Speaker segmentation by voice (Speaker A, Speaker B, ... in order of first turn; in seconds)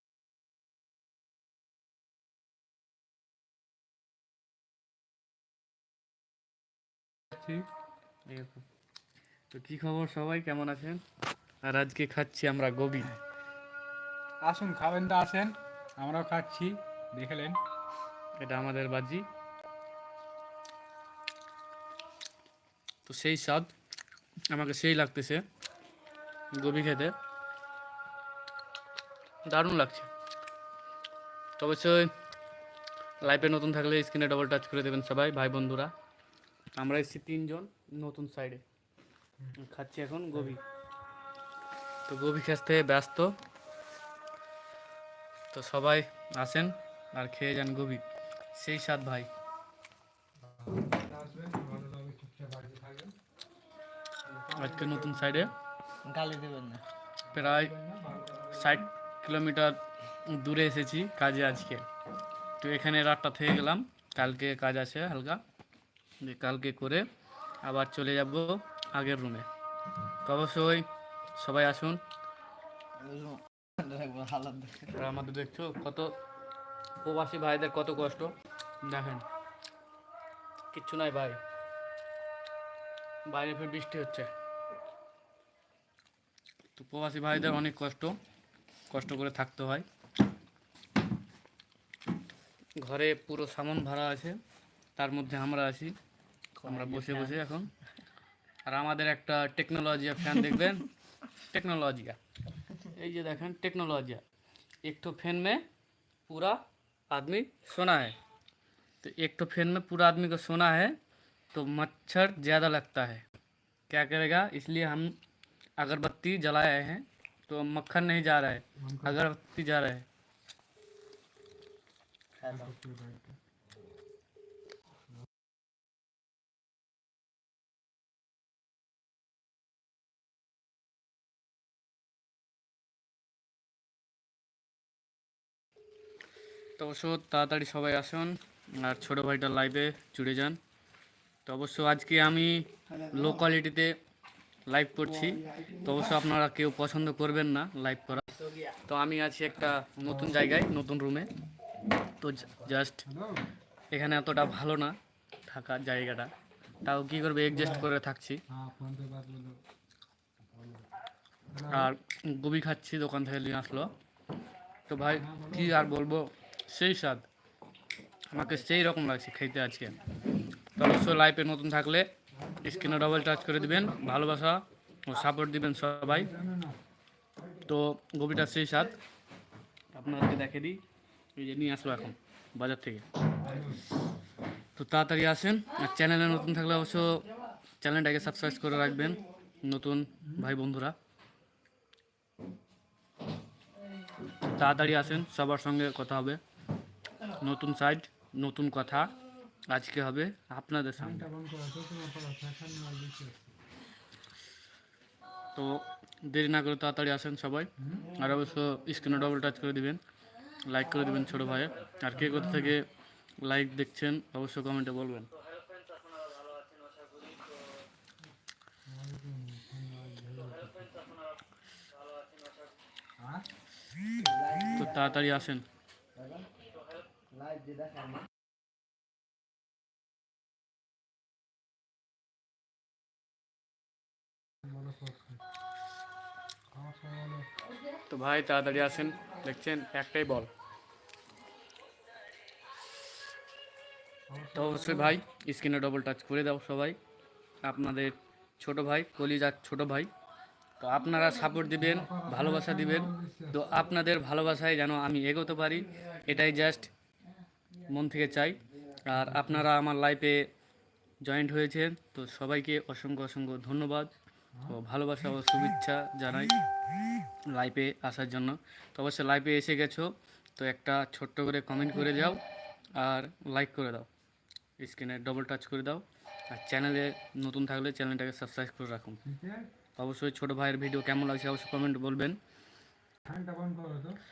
Speaker A: 7.3-7.7, 14.4-17.6, 40.3-40.6, 50.4-53.1, 54.2-55.5, 57.3-58.8, 118.8-119.2, 122.4-123.4, 150.0-150.6, 153.1-153.5, 157.5-157.9, 158.5-159.6, 160.5-160.9, 161.5-161.9, 165.2-165.9, 176.1-176.8, 183.4-183.9, 190.2-190.6, 194.6-195.2, 201.0-203.5, 207.8-208.2, 212.1-212.8, 218.9-221.1, 223.2-223.5, 234.5-235.4, 236.7-237.5, 244.3-245.2, 251.8-253.7, 259.1-259.7, 264.6-264.8, 271.9-272.4, 279.2-279.7, 283.3-284.2
Speaker B: 8.3-8.7, 9.5-11.0, 11.6-13.2, 18.4-19.3, 23.1-23.7, 24.5-25.4, 26.5-27.1, 29.5-30.1, 31.6-32.1, 33.2-35.9, 36.8-38.6, 39.6-40.6, 42.1-43.4, 45.5-48.0, 48.6-49.3, 54.6-55.5, 57.3-57.7, 58.5-61.9, 62.6-65.4, 66.2-67.0, 67.6-69.5, 70.2-72.0, 74.9-76.2, 77.0-79.3, 80.7-81.4, 83.3-84.3, 86.8-88.2, 88.9-89.8, 92.8-94.4, 95.0-96.0, 96.6-97.7, 98.7-102.2, 102.8-104.2, 104.8-105.6, 106.3-108.2, 109.0-111.0, 111.5-113.2, 113.9-115.2, 115.8-120.1, 136.8-140.6, 141.5-143.9, 144.7-148.3, 148.9-151.3, 152.1-153.0, 153.9-155.0, 155.5-156.3, 156.8-158.4, 161.7-163.9, 164.9-167.2, 168.3-170.0, 170.8-172.1, 172.6-176.3, 177.7-179.0, 179.9-180.8, 181.4-183.1, 184.8-187.2, 187.8-190.9, 194.3-196.4, 197.4-199.1, 199.7-201.3, 205.6-210.0, 210.7-212.9, 213.4-215.3, 224.7-225.7, 238.1-240.5, 244.6-247.0, 247.6-250.1, 250.8-256.9, 257.9-260.4, 261.2-264.1, 264.7-266.6, 267.5-272.4, 272.9-274.1, 274.8-279.2, 280.0-282.4
Speaker C: 56.0-56.8, 73.0-75.0, 96.6-97.4, 122.4-122.7, 224.2-225.2, 226.2-226.5, 227.3-228.3